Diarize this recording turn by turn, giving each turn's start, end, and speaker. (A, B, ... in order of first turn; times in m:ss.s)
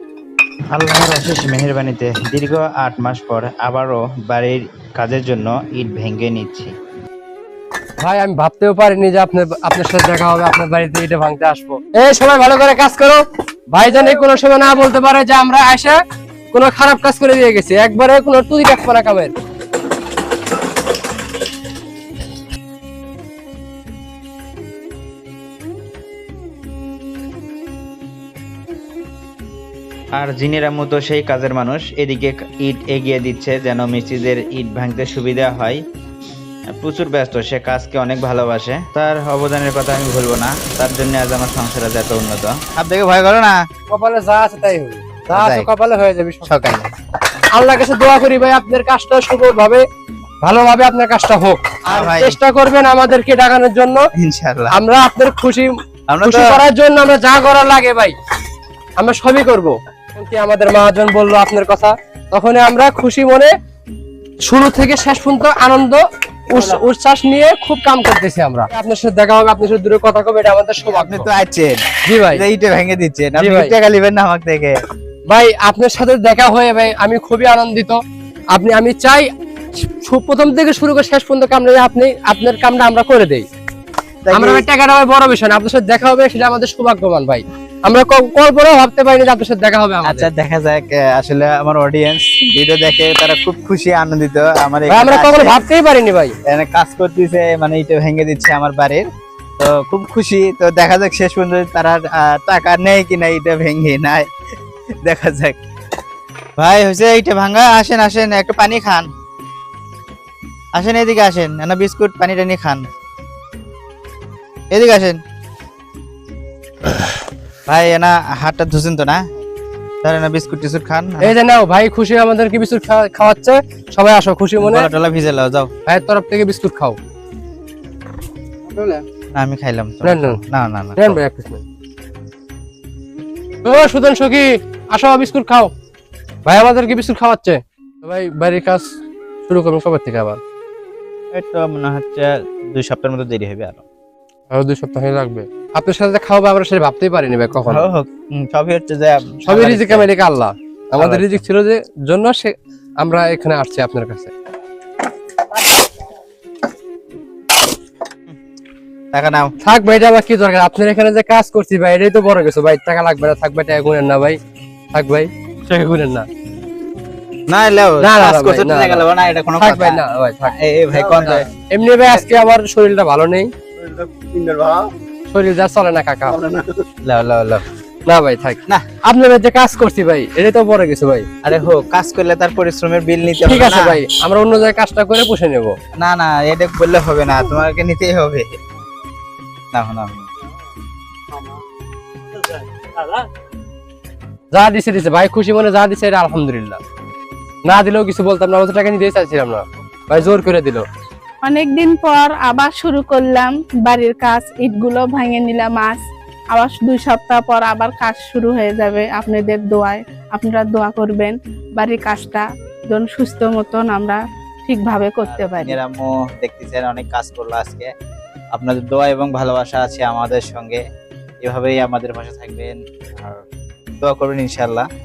0:00.7-0:06.7 A
0:08.0-0:16.0 B
0:16.5-0:19.3 B
0:30.2-0:35.8 A
0:36.7-0:43.6 A
0:43.9-0:46.8 B
0:45.3-0:45.7 A
0:46.4-0:46.9 A
0:47.5-0:49.8 B
0:50.4-0:54.1 B
0:51.9-0:52.4 A
0:54.2-0:54.8 A
0:54.7-0:58.1 B
0:56.1-0:56.6 A
0:59.0-1:03.5 B
1:04.5-1:11.3 B
1:10.9-1:14.8 A
1:12.1-1:12.4 B
1:13.4-1:13.7 B
1:15.3-1:19.3 B
1:19.8-1:23.5 B
1:24.2-1:24.6 A
1:24.3-1:30.3 B
1:30.0-1:35.6 A
1:34.9-1:36.3 B
1:36.5-1:39.0 A
1:39.6-1:44.3 A
1:45.0-1:45.6 A
1:46.6-1:49.1 A
1:50.8-1:52.8 A
1:54.7-1:55.2 A
1:57.7-1:59.2 A
2:00.0-2:01.3 A
2:01.2-2:04.9 B
2:04.6-2:05.7 A
2:05.8-2:07.0 B
2:08.7-2:09.0 B
2:09.3-2:11.2 A
2:10.0-2:10.4 B
2:11.0-2:11.6 B
2:13.6-2:15.7 B
2:16.4-2:18.8 B
2:19.5-2:20.4 B
2:21.3-2:23.8 A
2:24.5-2:27.9 B
2:27.7-2:30.1 A
2:29.4-2:34.3 B
2:30.9-2:31.4 A
2:39.1-2:39.5 A
2:39.6-2:44.4 B
2:44.9-2:46.3 B
2:47.5-2:51.5 A
2:48.0-2:49.0 B
2:49.6-2:50.6 B
2:51.2-2:53.5 B
2:54.2-2:54.8 A
2:55.3-2:56.6 B
2:57.0-2:57.6 A
2:58.1-3:01.3 B
3:01.4-3:04.0 A
3:03.4-3:05.8 B
3:06.0-3:08.5 A
3:09.7-3:10.3 A
3:14.5-3:16.8 B
3:17.6-3:20.8 B
3:21.4-3:26.0 C
3:26.5-3:35.8 C
3:35.2-3:37.9 A
3:38.5-3:40.8 A
3:41.4-3:43.4 A
3:44.0-3:44.8 A